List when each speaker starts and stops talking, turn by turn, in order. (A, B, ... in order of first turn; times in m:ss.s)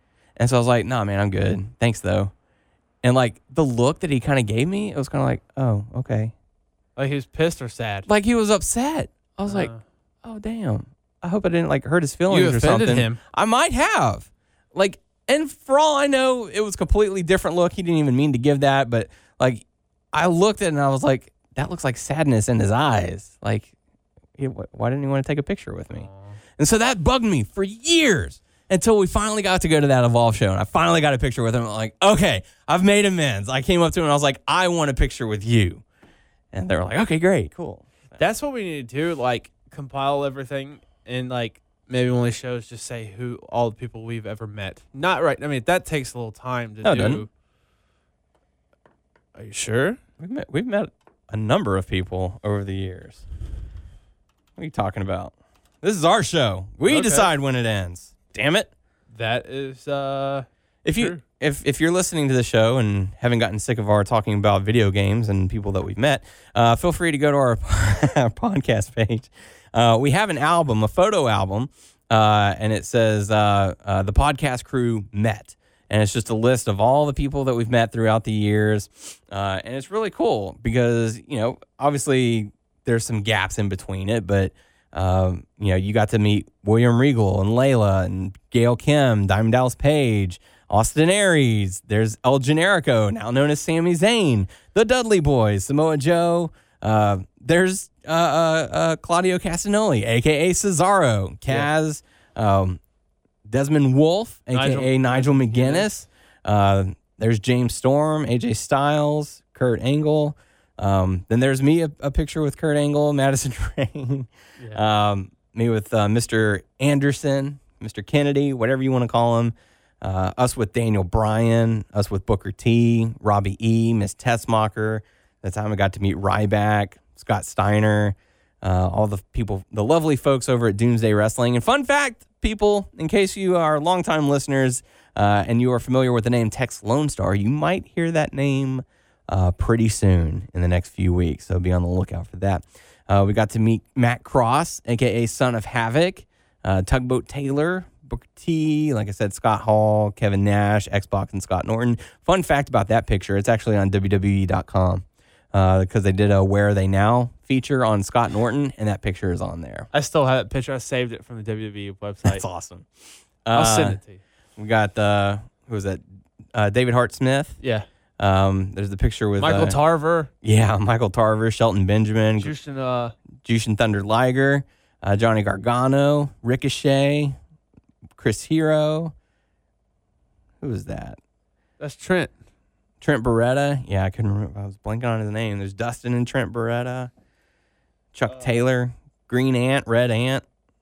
0:00.4-0:02.3 A
0:03.0-0:06.3 A
0:07.0-0:08.1 B
0:08.1-0:09.7 A
0:09.5-0:09.8 B
0:10.2-0:23.7 A
0:12.3-0:13.2 B
0:24.4-0:35.8 A
0:25.9-0:26.4 B
0:36.5-0:38.2 A
0:38.2-0:47.3 B
0:46.8-0:47.2 A
0:49.3-0:50.0 B
0:50.2-0:53.2 A
0:54.6-0:58.7 A
0:56.9-0:57.3 B
0:59.1-1:01.2 B
1:00.8-1:42.8 A
1:43.5-2:39.9 A
1:44.5-1:45.9 B
2:39.9-2:42.4 B
2:42.2-2:42.9 A
2:43.4-2:44.0 A
2:43.5-2:44.2 B
2:44.6-2:46.0 A
2:46.5-2:47.6 A
2:47.6-2:47.8 B
2:48.2-2:49.8 A
2:49.4-2:50.3 B
2:50.4-2:52.5 A
2:52.4-2:53.1 B
2:53.4-2:57.4 A
2:58.2-2:59.1 A
3:00.6-3:01.2 A
3:01.8-3:02.3 B
3:03.0-3:07.1 A
3:08.1-3:10.4 A